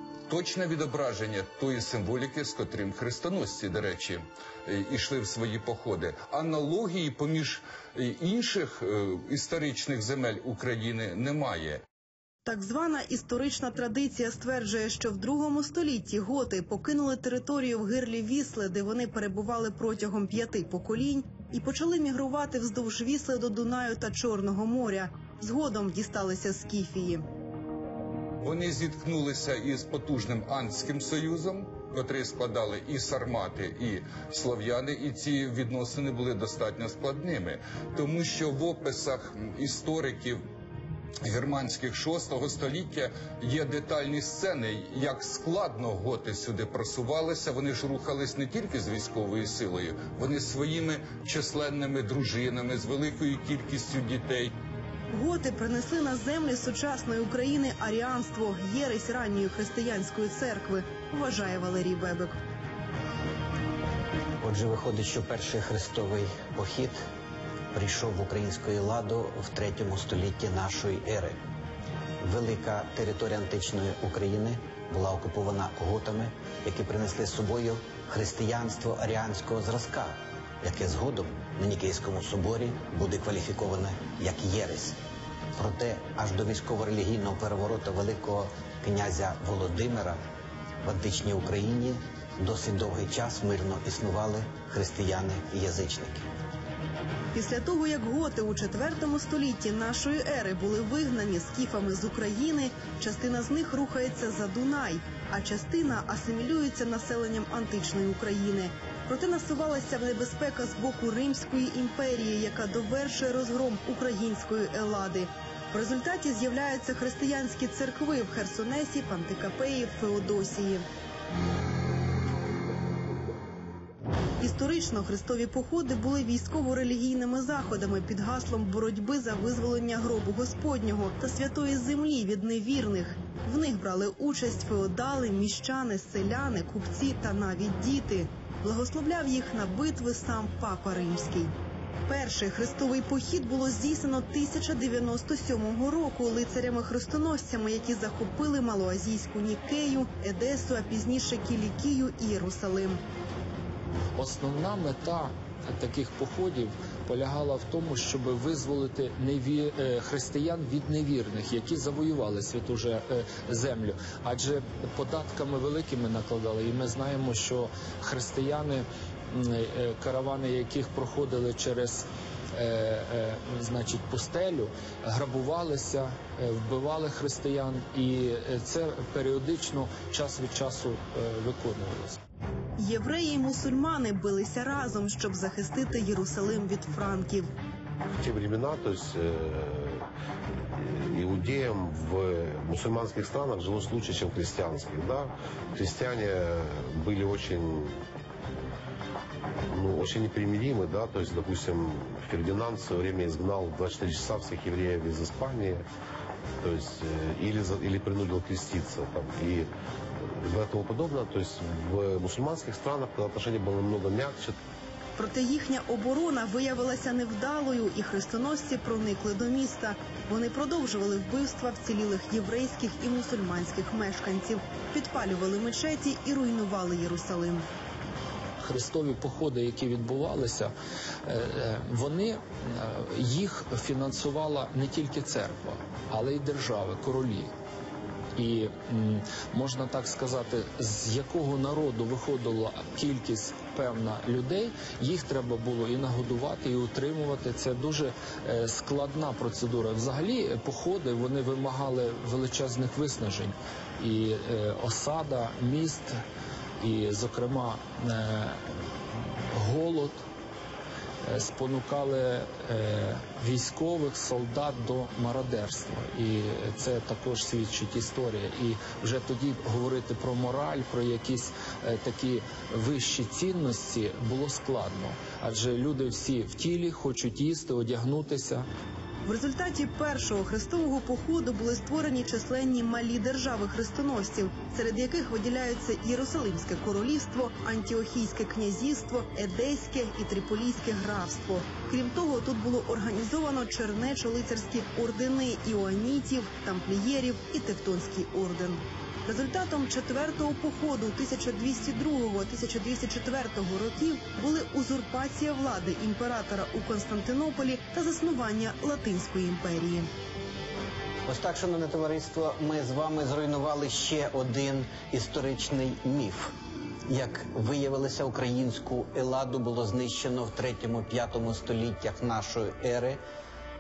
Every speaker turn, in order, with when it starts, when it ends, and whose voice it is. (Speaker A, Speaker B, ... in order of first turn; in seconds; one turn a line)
Speaker A: 0.3-11.8
Speaker B: 12.4-27.2
Speaker A: 28.4-40.4
Speaker A: 41.2-54.5
Speaker B: 55.1-62.4
Speaker C: 64.4-67.0
Speaker C: 67.7-71.4
Speaker C: 72.2-85.0
Speaker C: 85.6-90.2
Speaker C: 90.8-96.3
Speaker B: 97.3-120.8
Speaker B: 124.4-141.5
Speaker B: 142.1-153.0
Speaker D: 154.1-182.2
Speaker B: 182.8-187.5
Speaker E: 188.2-190.0
Speaker E: 190.8-198.0
Speaker E: 199.7-205.9
Speaker E: 206.6-209.7
Speaker E: 210.2-214.6
Speaker B: 215.2-227.7
Speaker D: 228.6-230.7
Speaker D: 231.3-237.5
Speaker D: 238.4-256.2
Speaker D: 256.8-260.2
Speaker D: 261.2-278.7
Speaker B: 279.2-310.1
Speaker C: 311.3-316.5
Speaker C: 317.1-323.2